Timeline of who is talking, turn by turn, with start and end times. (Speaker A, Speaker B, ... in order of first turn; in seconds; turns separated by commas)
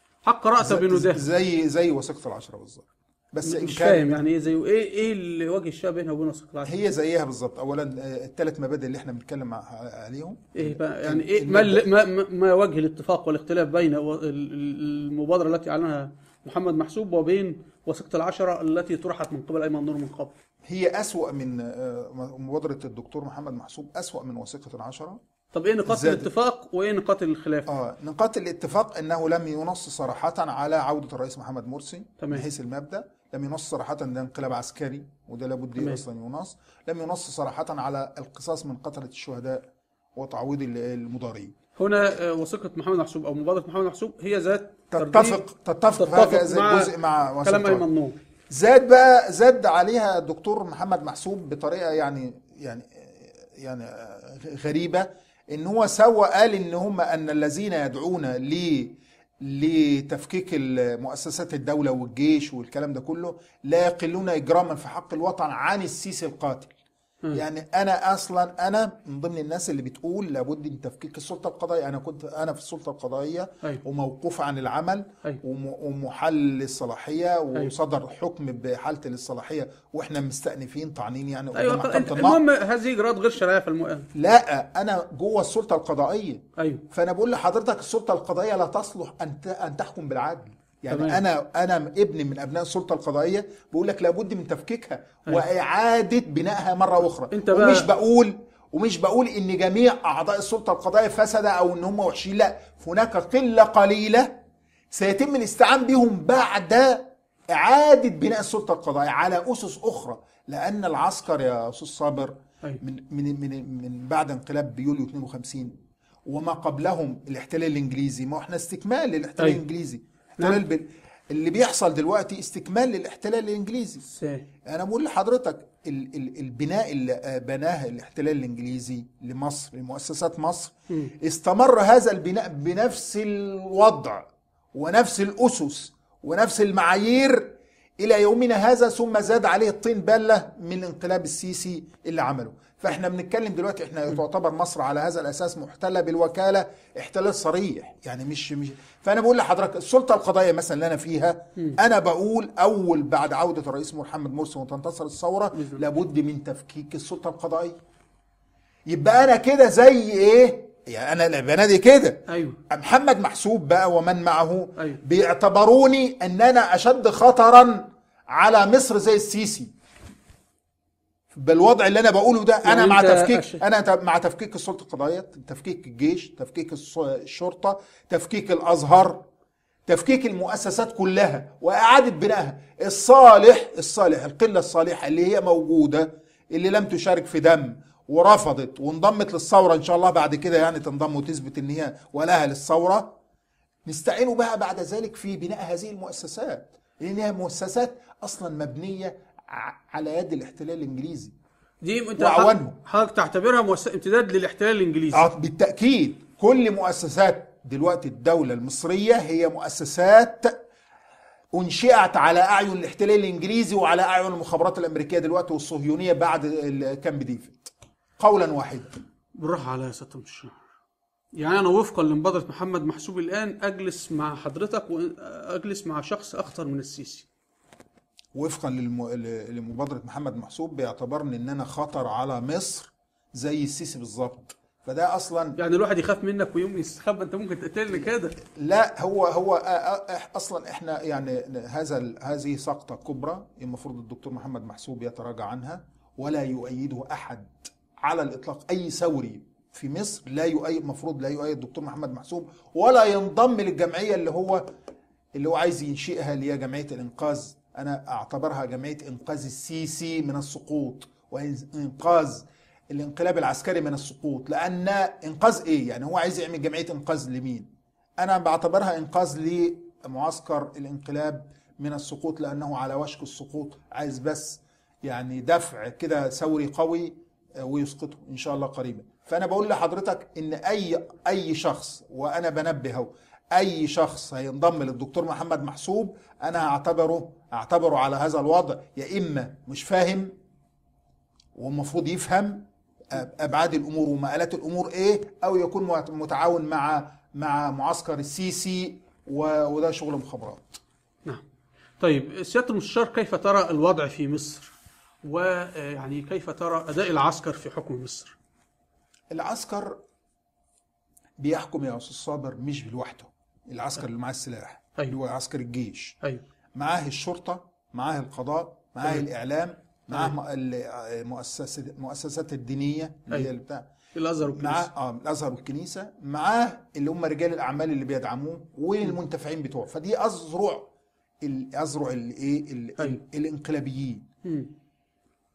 Speaker A: 0.2-1.2, Speaker B: 0.6-4.1, Speaker A: 3.4-6.8, Speaker B: 6.6-11.9, Speaker A: 10.6-20.3, Speaker B: 20.6-25.2, Speaker A: 25.5-27.7, Speaker B: 25.9-26.3, Speaker B: 27.7-41.5, Speaker A: 32.2-32.5, Speaker A: 35.8-36.0, Speaker A: 41.8-45.4, Speaker B: 44.9-47.8, Speaker A: 46.0-48.2, Speaker B: 48.5-66.7, Speaker B: 67.3-82.4, Speaker A: 81.5-84.1, Speaker B: 84.1-104.4, Speaker A: 86.6-86.8, Speaker A: 90.9-91.2, Speaker A: 97.3-97.9, Speaker B: 104.9-115.8, Speaker B: 116.3-124.0, Speaker A: 124.1-124.4, Speaker B: 124.7-157.8, Speaker A: 155.5-155.8, Speaker B: 158.9-169.7, Speaker A: 162.3-162.6, Speaker B: 171.3-179.2, Speaker A: 172.6-173.6, Speaker B: 179.9-193.2, Speaker B: 193.9-201.3, Speaker A: 201.8-205.3, Speaker B: 202.2-202.8, Speaker B: 205.1-210.6, Speaker B: 211.5-218.9, Speaker A: 219.4-220.6, Speaker A: 221.4-227.3, Speaker B: 228.3-235.6, Speaker A: 235.6-238.4, Speaker B: 238.6-254.6, Speaker B: 255.3-267.7, Speaker B: 268.2-290.3, Speaker B: 291.5-300.8, Speaker A: 302.0-304.7, Speaker A: 305.2-308.4, Speaker B: 309.3-310.0, Speaker B: 311.4-316.2, Speaker B: 316.8-323.9, Speaker A: 324.1-324.9, Speaker B: 324.4-330.9, Speaker B: 331.4-334.2, Speaker A: 334.4-334.7